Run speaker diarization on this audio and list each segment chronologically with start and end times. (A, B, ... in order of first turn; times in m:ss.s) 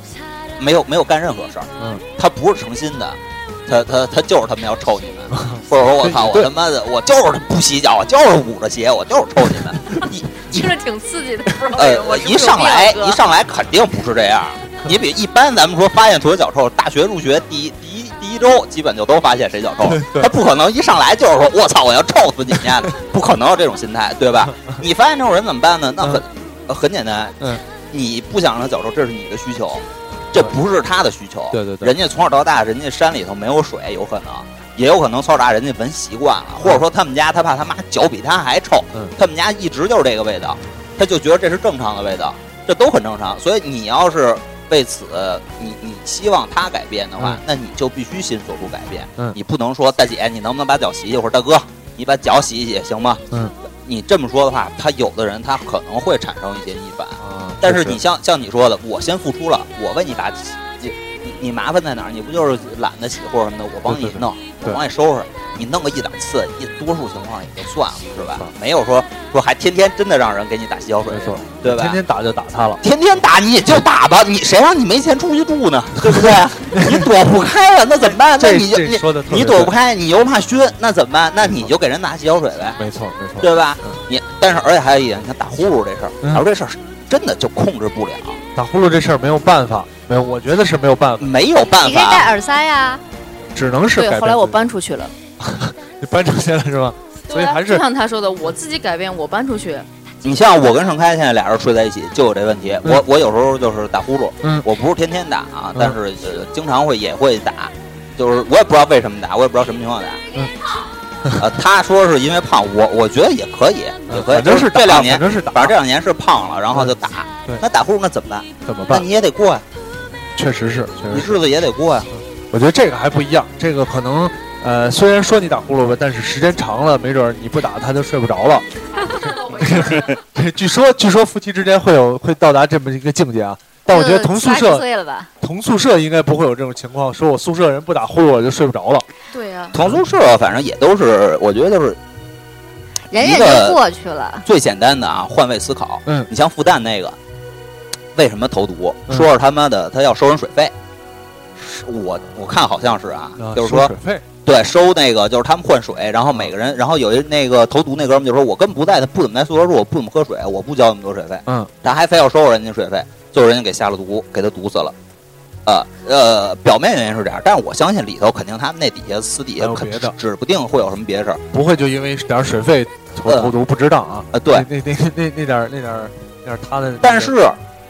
0:00.6-0:10.7 A
0:01.8-0:02.0 B
0:05.3-0:06.5 B
0:10.5-0:13.2 C
0:11.7-1:12.0 A
0:19.8-0:20.3 B
0:31.5-0:31.9 B
0:57.2-0:58.0 B
1:03.9-1:04.8 B
1:11.1-1:12.8 B
1:12.8-1:22.8 A
1:16.1-1:17.1 B
1:18.4-1:19.7 B
1:22.8-1:24.0 B
1:23.4-1:28.4 A
1:28.5-1:31.3 B
1:31.2-1:32.3 A
1:31.8-1:33.0 D
1:33.5-1:34.6 B
1:33.9-1:35.1 C
1:35.4-1:37.8 B
1:37.3-1:39.9 C
1:40.2-1:50.2 A
1:51.4-1:59.6 A
1:54.1-1:55.8 B
1:58.6-1:59.0 B
2:00.3-2:01.4 B
2:01.1-2:02.1 A
2:02.1-2:14.8 B
2:09.0-2:10.0 C
2:13.9-2:15.3 D
2:15.4-2:19.0 B
2:19.3-2:19.8 C
2:19.7-2:22.0 A
2:23.1-2:24.4 D
2:23.2-2:23.8 A
2:24.4-2:27.2 A
2:28.1-2:30.7 A
2:31.6-2:33.9 A
2:33.4-2:34.2 B
2:34.4-2:44.9 A
2:41.4-2:41.7 B
2:45.6-2:51.4 A
2:49.6-2:50.1 B
2:51.5-2:57.3 B
2:53.2-2:53.5 A
2:54.3-2:54.7 A
2:57.0-2:57.6 A